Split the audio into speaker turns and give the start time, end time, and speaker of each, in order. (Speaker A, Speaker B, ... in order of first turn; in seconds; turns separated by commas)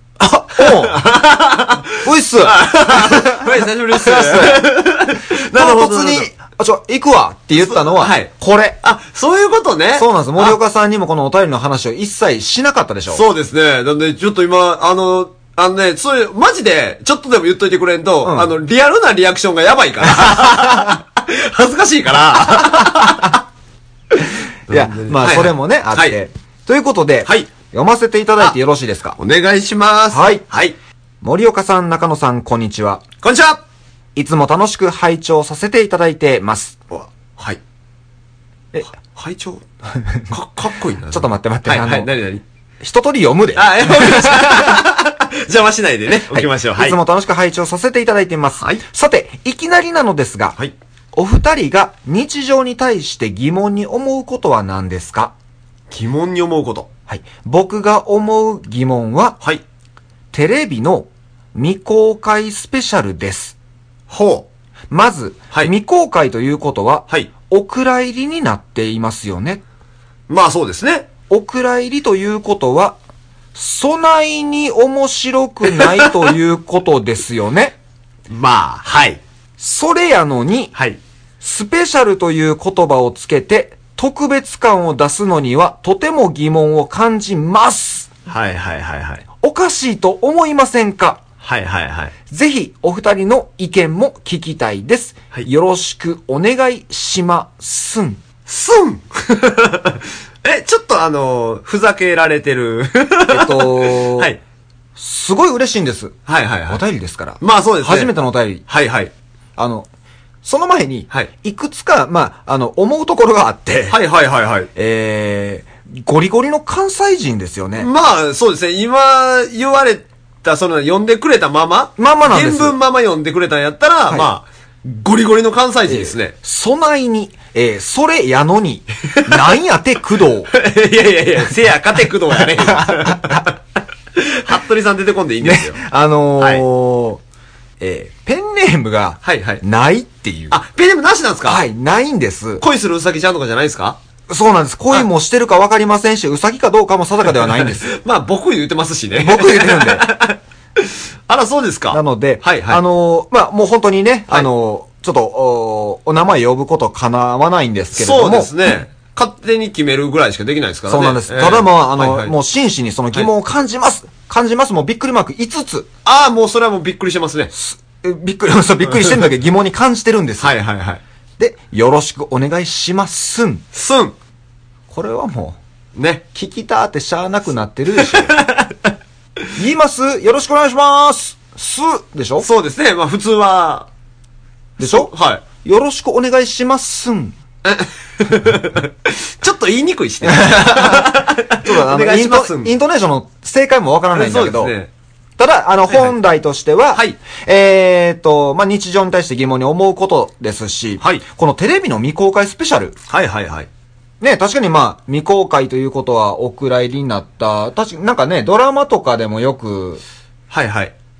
Speaker A: 0.2-1.0, Speaker B: 0.6-6.3, Speaker A: 2.0-4.8, Speaker A: 5.5-8.8, Speaker B: 7.6-10.6, Speaker A: 9.9-13.2, Speaker B: 13.1-23.4, Speaker A: 18.2-18.5, Speaker A: 20.0-20.9, Speaker A: 22.4-23.3, Speaker A: 24.7-29.2, Speaker B: 24.7-26.2, Speaker B: 27.2-27.5, Speaker B: 29.2-30.8, Speaker A: 30.1-30.4, Speaker A: 31.2-33.0, Speaker B: 33.2-33.6, Speaker A: 34.1-36.8, Speaker B: 36.9-37.6, Speaker B: 39.0-39.6, Speaker B: 40.3-42.4, Speaker A: 41.1-42.1, Speaker A: 42.8-44.8, Speaker B: 43.5-47.0, Speaker A: 46.3-50.6, Speaker A: 51.1-55.3, Speaker B: 55.9-56.9, Speaker A: 57.1-59.4, Speaker A: 60.3-63.5, Speaker B: 64.1-64.5, Speaker A: 64.9-69.6, Speaker B: 70.3-71.1, Speaker A: 71.3-73.0, Speaker A: 73.5-77.8, Speaker B: 75.7-76.1, Speaker B: 78.3-79.2, Speaker A: 79.6-80.7, Speaker B: 80.7-81.0, Speaker A: 81.4-88.1, Speaker B: 88.3-89.2, Speaker A: 89.4-91.2, Speaker B: 91.4-92.1, Speaker A: 92.3-98.2, Speaker B: 98.5-104.4, Speaker A: 103.3-104.3, Speaker A: 105.0-108.7, Speaker B: 106.3-106.8, Speaker B: 107.4-109.1, Speaker A: 109.6-109.9, Speaker A: 110.4-114.0, Speaker B: 113.9-114.7, Speaker A: 114.7-117.9, Speaker B: 117.8-126.3, Speaker A: 122.0-122.8, Speaker A: 125.9-130.5, Speaker B: 129.1-129.4, Speaker B: 130.5-133.6, Speaker A: 132.4-133.4, Speaker B: 134.1-135.8, Speaker A: 135.4-137.2, Speaker B: 136.4-136.6, Speaker A: 137.8-140.6, Speaker B: 139.2-139.6, Speaker B: 140.5-141.6, Speaker A: 141.4-142.6, Speaker B: 142.6-144.0, Speaker A: 144.3-147.9, Speaker B: 147.3-152.8, Speaker A: 149.1-150.1, Speaker A: 151.9-158.8, Speaker B: 157.9-162.3, Speaker A: 160.9-165.9, Speaker B: 166.0-167.5, Speaker A: 167.5-170.6, Speaker B: 168.9-169.2, Speaker B: 170.4-171.0, Speaker A: 171.4-173.6, Speaker B: 173.7-174.1, Speaker A: 174.9-175.6, Speaker B: 175.9-176.2, Speaker A: 176.3-178.3, Speaker B: 178.0-178.9, Speaker A: 179.5-182.5, Speaker B: 182.4-183.9, Speaker A: 184.8-185.1, Speaker B: 184.8-185.4, Speaker A: 185.6-187.4, Speaker B: 187.6-192.7, Speaker A: 190.2-194.7, Speaker B: 194.1-194.9, Speaker A: 195.4-202.9, Speaker B: 195.9-196.2, Speaker B: 203.1-203.7, Speaker A: 204.2-210.0, Speaker B: 210.5-210.9